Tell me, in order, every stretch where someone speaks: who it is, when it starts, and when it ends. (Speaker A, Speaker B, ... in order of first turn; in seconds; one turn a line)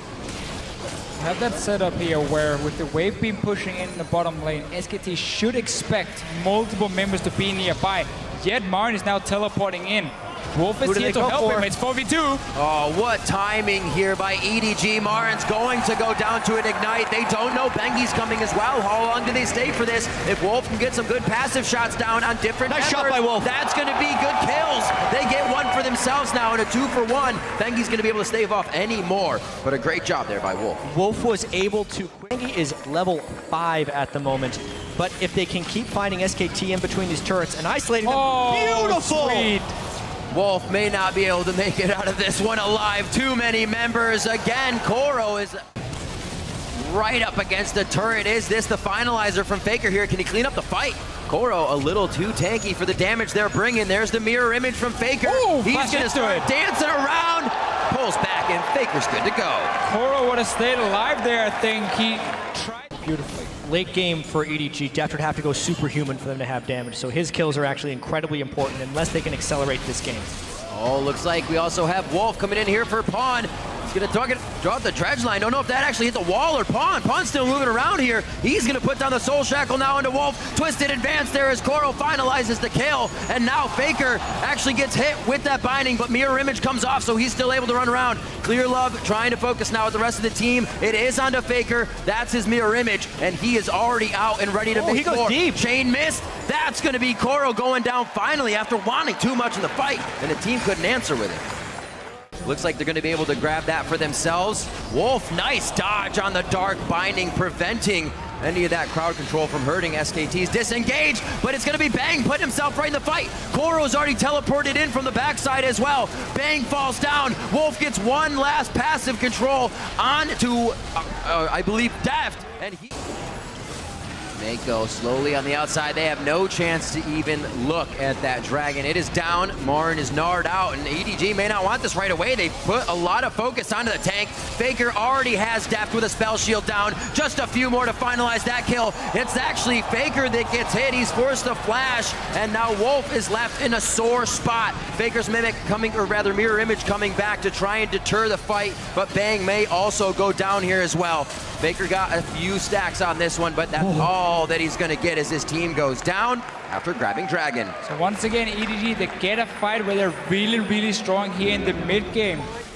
Speaker A: 1.2-12.4
Speaker B: 10.8-11.7
Speaker C: 12.5-30.8
Speaker B: 22.7-23.5
Speaker B: 30.9-39.5
Speaker A: 38.0-39.7
Speaker C: 40.3-45.6
Speaker C: 46.7-59.7
Speaker A: 55.2-56.5
Speaker A: 59.9-63.5
Speaker B: 63.6-70.3
Speaker C: 70.7-101.4
Speaker B: 94.7-95.6
Speaker C: 102.4-122.9
Speaker C: 124.3-157.8
Speaker B: 153.8-154.1
Speaker A: 157.8-162.5